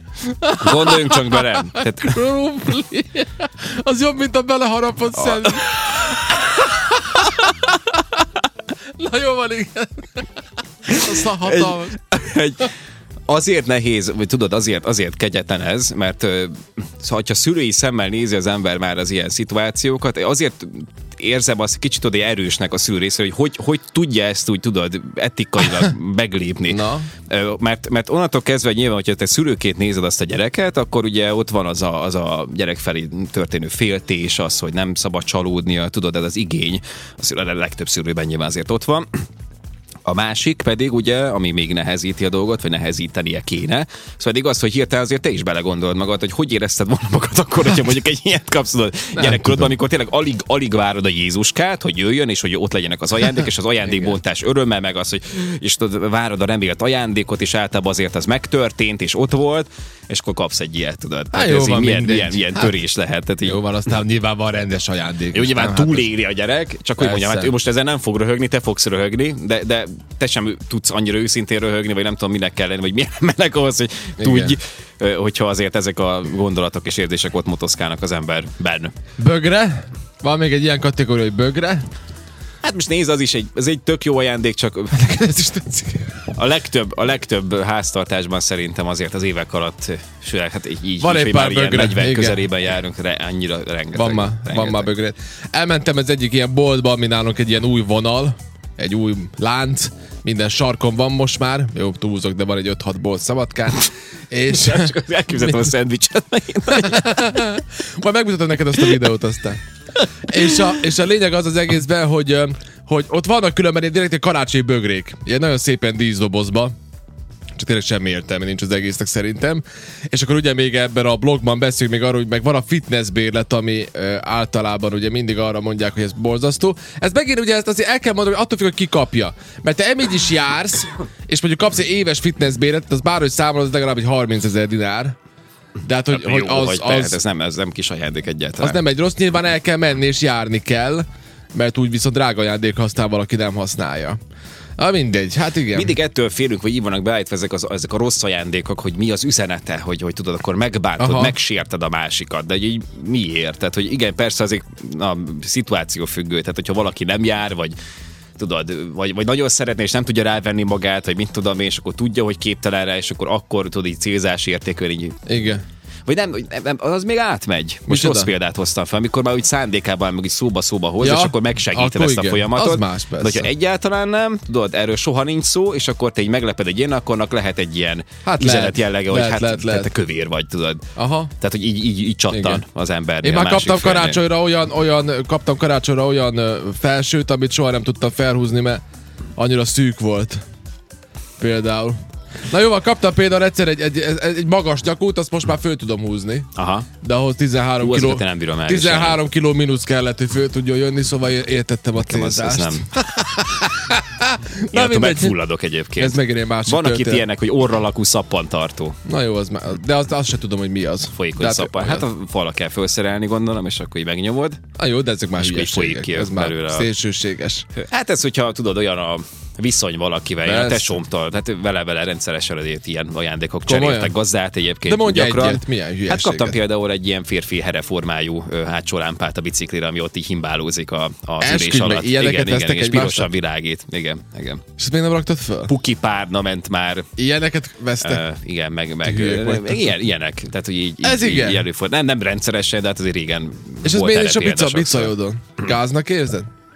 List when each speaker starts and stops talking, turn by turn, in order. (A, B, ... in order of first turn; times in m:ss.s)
0:00.2-0:08.0 A
0:00.6-0:02.2 B
0:05.2-0:05.6 B
0:09.0-0:10.2 A
0:10.8-0:12.0 A
0:11.0-0:12.7 B
0:13.3-0:39.1 B
0:26.7-0:27.1 A
0:40.1-1:03.6 B
0:49.2-0:49.7 A
0:53.9-0:54.2 A
1:01.3-1:02.7 A
1:03.4-1:06.1 A
1:05.3-1:18.9 B
1:07.0-1:07.5 A
1:14.2-1:14.6 A
1:19.2-1:21.8 A
1:22.6-1:25.0 B
1:24.9-1:26.3 A
1:26.3-1:34.9 B
1:31.0-1:32.5 A
1:33.9-1:45.0 A
1:44.5-1:47.3 B
1:46.8-1:49.6 A
1:50.3-1:56.7 A
1:50.3-1:50.7 B
1:57.6-2:15.2 A
2:15.8-2:17.2 A
2:16.1-2:18.8 B
2:18.6-2:24.2 A
2:24.8-2:26.0 A
2:25.7-2:37.8 B
2:31.0-2:31.4 A
2:38.4-2:45.2 B
2:45.3-2:45.6 A
2:46.1-3:00.8 B
2:47.9-2:48.3 A
2:51.0-2:53.5 A
2:58.2-2:59.9 A
3:01.0-3:01.3 A
3:01.4-3:04.2 B
3:02.3-3:02.6 A
3:03.2-3:08.8 A
3:09.4-3:10.4 A
3:11.4-3:12.0 A
3:12.5-3:16.5 A
3:16.6-3:16.9 B
3:17.0-3:25.4 A
3:17.8-3:19.2 B
3:22.0-3:22.8 B
3:24.7-3:29.0 B
3:26.0-3:27.3 A
3:29.0-3:32.0 A
3:31.1-3:34.6 B
3:34.8-3:37.7 A
3:35.4-3:36.9 B
3:37.8-3:54.6 B
3:40.5-3:41.0 A
3:43.7-3:44.1 A
3:44.8-3:46.6 A
3:51.4-3:53.3 A
3:54.8-3:55.7 A
3:55.7-3:57.1 B
3:57.2-3:58.2 A
3:58.0-4:05.1 B
3:59.0-3:59.9 A
4:01.0-4:01.6 A
4:03.8-4:06.5 A